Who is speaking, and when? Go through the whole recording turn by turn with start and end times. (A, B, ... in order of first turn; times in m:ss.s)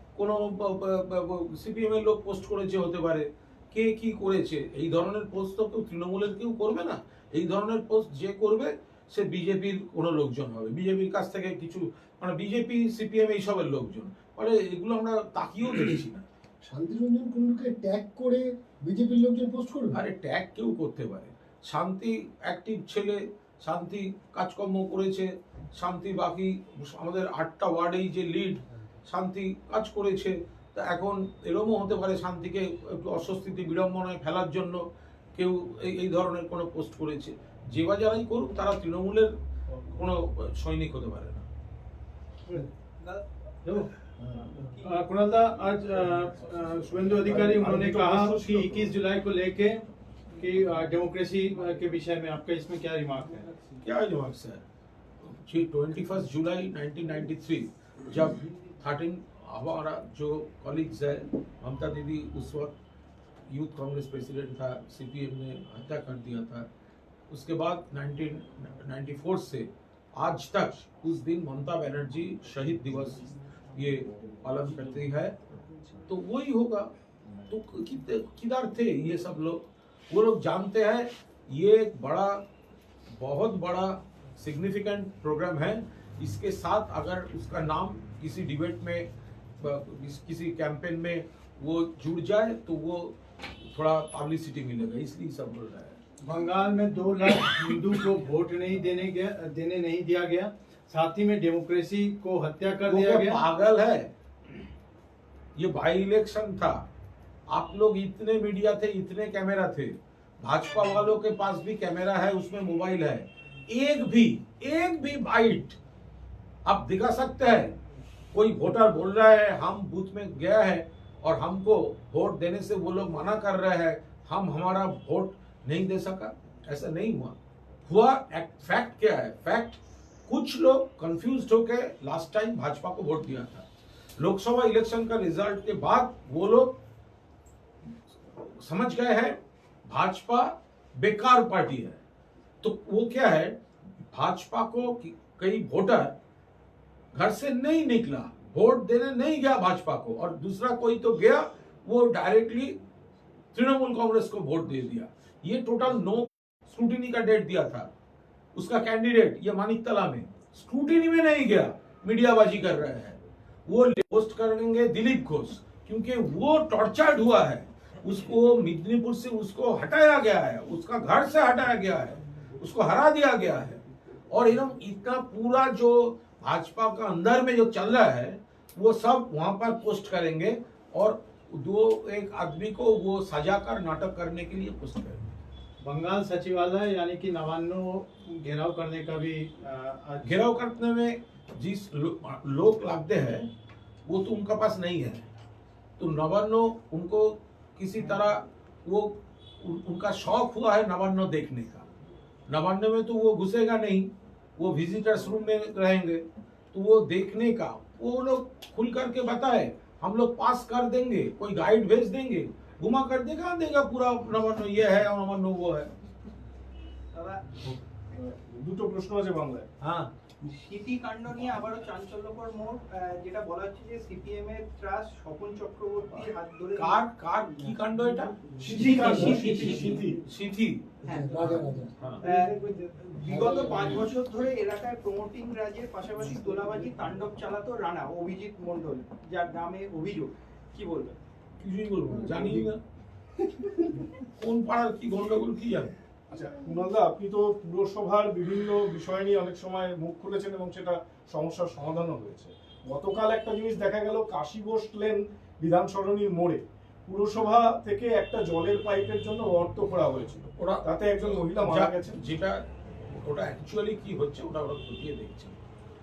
0:00.2-0:16.2 A
0:16.6-0:20.0 B
0:19.9-0:34.8 A
0:35.4-0:39.4 A
0:39.9-0:41.4 A
0:43.0-0:45.1 C
0:44.8-0:53.5 D
0:47.1-0:48.9 E
0:53.8-0:54.6 A
0:55.2-1:02.7 A
1:03.5-1:06.7 A
1:07.3-1:16.9 A
1:17.5-1:22.4 A
1:23.2-1:29.1 A
1:29.6-1:36.0 A
1:36.2-1:43.4 D
1:42.9-1:44.1 A
1:45.6-1:46.8 A
1:47.5-1:55.8 A
1:56.6-1:57.8 A
1:58.3-2:13.7 A
2:14.2-2:16.8 A
2:18.1-2:22.0 A
2:22.6-2:23.6 A
2:24.1-2:26.2 A
2:27.1-2:32.8 A
2:33.5-2:37.9 A
2:38.5-3:05.3 A
3:05.8-3:10.4 D
3:10.2-3:13.5 A
3:14.0-3:15.2 A
3:16.0-3:21.8 A
3:22.5-3:35.9 A
3:37.1-3:37.8 C
3:38.1-3:39.7 E
3:39.8-3:40.1 A
3:40.4-3:47.0 C
3:46.1-3:52.3 A
3:48.6-3:50.2 E
3:48.7-3:49.8 C
3:48.7-3:49.6 B
3:51.0-3:51.4 C
3:51.0-3:51.9 B
3:52.2-4:01.2 C
3:53.3-3:54.1 B
4:01.6-4:02.8 A
4:04.4-4:06.0 A
4:06.3-4:22.2 E
4:20.6-4:20.8 A
4:21.4-4:25.5 A